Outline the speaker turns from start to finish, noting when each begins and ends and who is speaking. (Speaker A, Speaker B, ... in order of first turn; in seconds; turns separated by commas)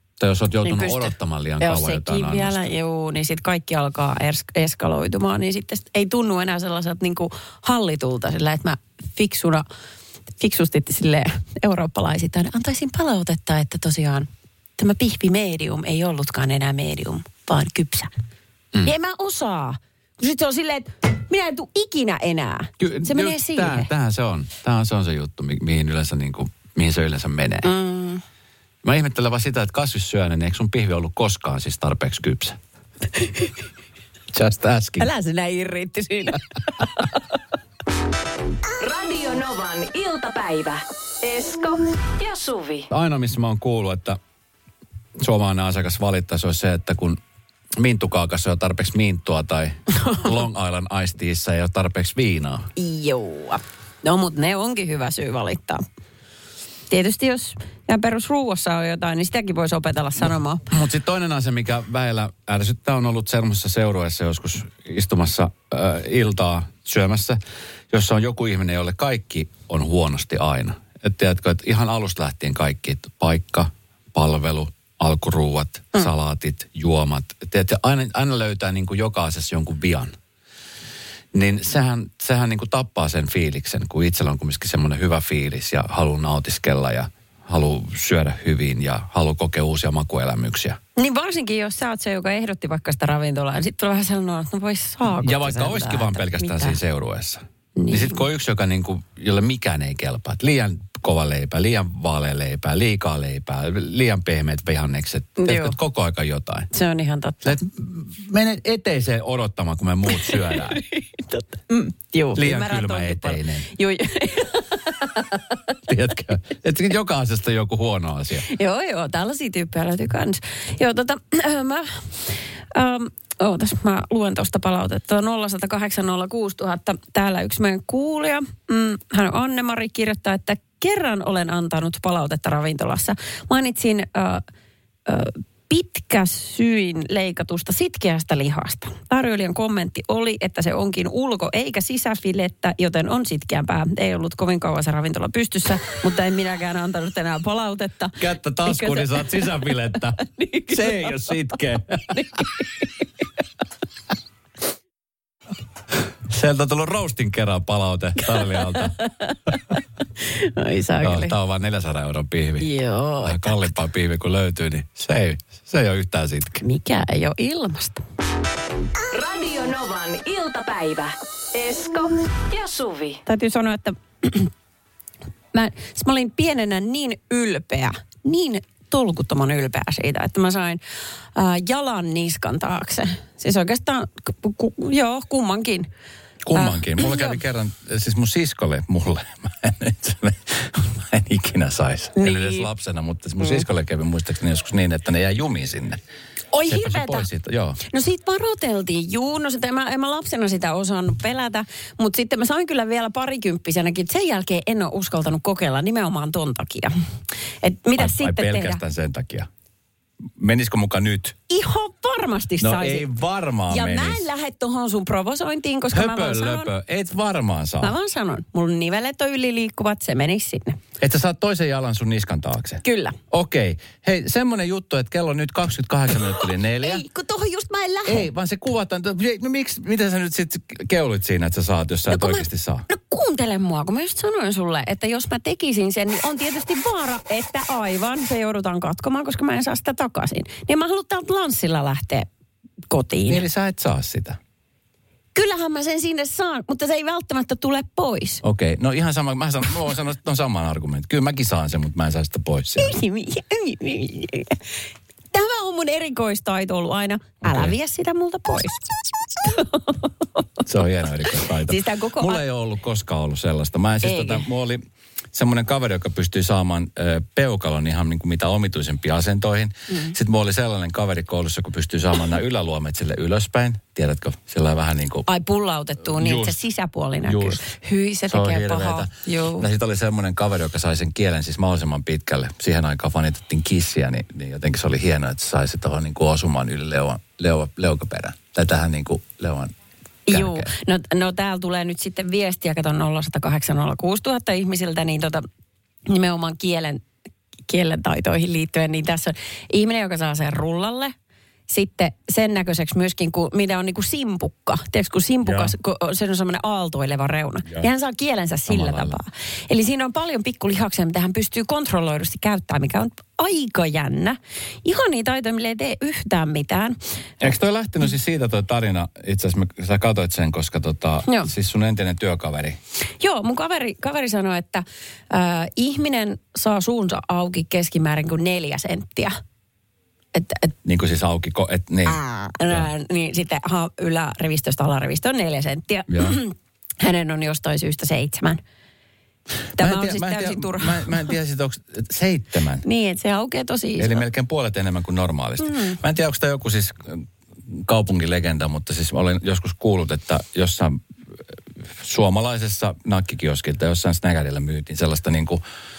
Speaker A: 0.2-2.6, Speaker B: 0.6-9.6, Speaker B: 10.4-18.1, Speaker B: 18.8-23.9, Speaker A: 22.8-27.7, Speaker B: 27.6-28.2, Speaker A: 28.8-32.6, Speaker B: 33.2-33.5, Speaker A: 34.3-35.1, Speaker B: 35.0-37.3, Speaker C: 38.8-42.9, Speaker A: 42.9-44.2, Speaker A: 45.2-47.2, Speaker A: 47.8-52.7, Speaker B: 52.8-55.8, Speaker B: 56.9-60.7, Speaker A: 60.7-80.2, Speaker A: 81.3-90.8, Speaker B: 91.0-96.8, Speaker A: 95.2-106.7, Speaker B: 97.8-98.2, Speaker B: 105.4-105.8, Speaker B: 106.7-107.6, Speaker A: 107.4-110.8, Speaker B: 110.1-115.6, Speaker A: 112.3-113.7, Speaker A: 115.9-118.5, Speaker B: 118.5-134.4, Speaker B: 135.1-151.3, Speaker A: 148.2-152.5, Speaker B: 152.1-153.1, Speaker A: 156.2-159.0, Speaker B: 158.4-161.3, Speaker A: 161.0-166.6, Speaker B: 162.6-163.7, Speaker B: 166.6-168.0, Speaker C: 169.1-173.2, Speaker B: 173.2-174.5, Speaker B: 175.5-180.8, Speaker B: 181.3-185.9, Speaker A: 186.4-196.0, Speaker B: 186.5-187.4, Speaker B: 192.2-192.7, Speaker B: 196.5-197.3, Speaker A: 196.7-197.8, Speaker B: 197.8-206.9, Speaker B: 207.6-208.8, Speaker A: 208.0-209.5, Speaker A: 210.4-211.4, Speaker B: 211.5-213.1, Speaker A: 212.6-214.2, Speaker B: 213.7-216.7, Speaker A: 215.9-217.9, Speaker B: 217.8-220.8, Speaker A: 221.0-227.1, Speaker B: 222.8-223.2, Speaker B: 226.4-228.3, Speaker A: 228.1-232.9, Speaker B: 232.1-242.3, Speaker B: 242.9-243.4, Speaker A: 243.3-244.4, Speaker B: 245.3-248.4, Speaker A: 248.4-253.0, Speaker B: 252.8-254.6, Speaker B: 255.3-260.4, Speaker A: 257.4-257.7, Speaker A: 260.6-275.3, Speaker B: 261.6-262.4, Speaker B: 264.0-264.5, Speaker B: 269.9-270.1, Speaker B: 275.3-279.6, Speaker A: 276.1-276.6, Speaker A: 277.2-277.7, Speaker A: 278.3-289.7, Speaker B: 290.3-295.4, Speaker A: 290.3-290.7, Speaker B: 296.1-297.1, Speaker B: 297.7-301.1, Speaker B: 301.7-317.0, Speaker A: 305.4-305.7, Speaker A: 308.7-309.2, Speaker A: 317.4-322.8, Speaker B: 323.2-329.4, Speaker B: 330.3-330.7, Speaker A: 330.9-332.9, Speaker B: 332.1-338.6, Speaker A: 336.1-336.4, Speaker B: 339.8-341.3, Speaker A: 339.8-342.9, Speaker B: 342.8-344.2, Speaker A: 344.0-355.6, Speaker B: 345.6-346.0